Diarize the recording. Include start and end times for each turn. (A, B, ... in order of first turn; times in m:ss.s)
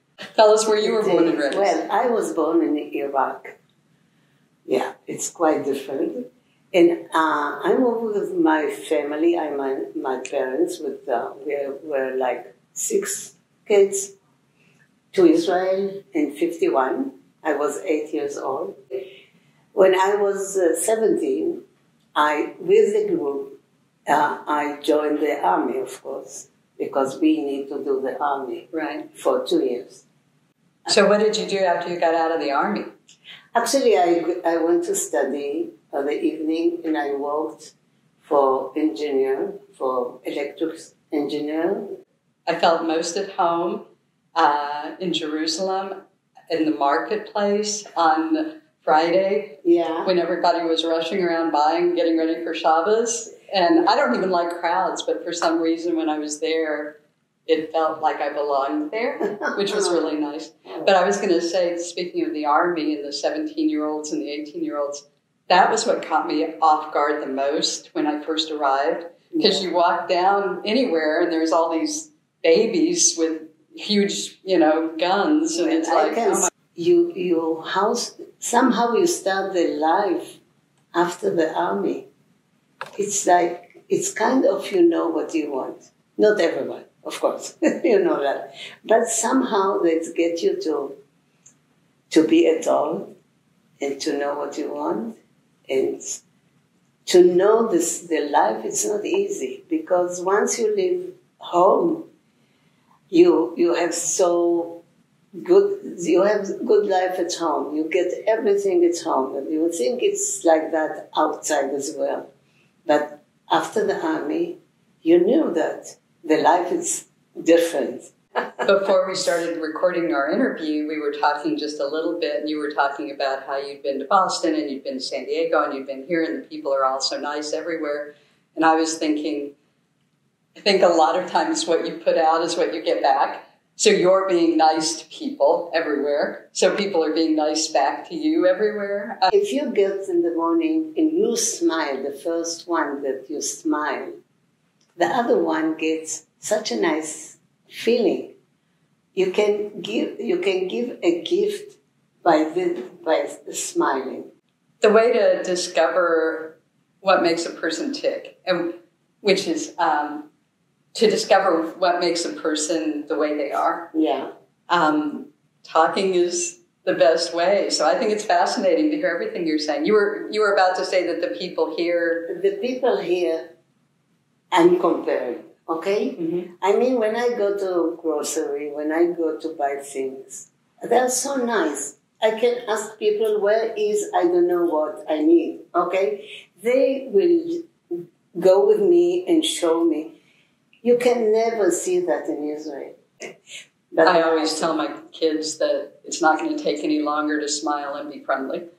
0:00.3-0:01.8 A
0:00.8-0:03.6 B
0:04.6-0:14.1 B
0:15.1-0:18.8 B
0:19.7-0:21.6 B
0:22.1-0:23.5 B
0:24.1-0:30.0 B
0:28.7-0:29.0 A
0:30.9-0:32.9 A
0:33.5-0:41.9 B
0:42.4-0:43.8 A
0:44.4-0:46.0 A
0:46.5-1:16.5 A
0:49.6-0:50.1 B
1:09.3-1:09.6 B
1:15.5-1:20.4 B
1:20.9-1:22.1 B
1:23.0-1:31.0 B
1:32.1-1:33.1 B
1:33.8-1:36.2 B
1:37.0-1:42.1 B
1:43.1-1:44.8 B
1:45.4-1:52.3 B
1:52.8-1:58.7 B
1:58.6-2:09.5 A
2:10.6-2:19.3 A
2:19.3-2:24.2 B
2:25.0-2:28.4 B
2:29.2-2:34.3 B
2:34.8-2:40.3 A
2:40.9-2:43.9 A
2:43.9-2:44.3 B
2:44.7-2:52.3 A
2:52.3-2:53.5 B
2:54.5-3:07.7 B
3:08.3-3:10.1 B
3:10.8-3:13.0 B
3:13.9-3:14.7 B
3:14.0-3:18.6 A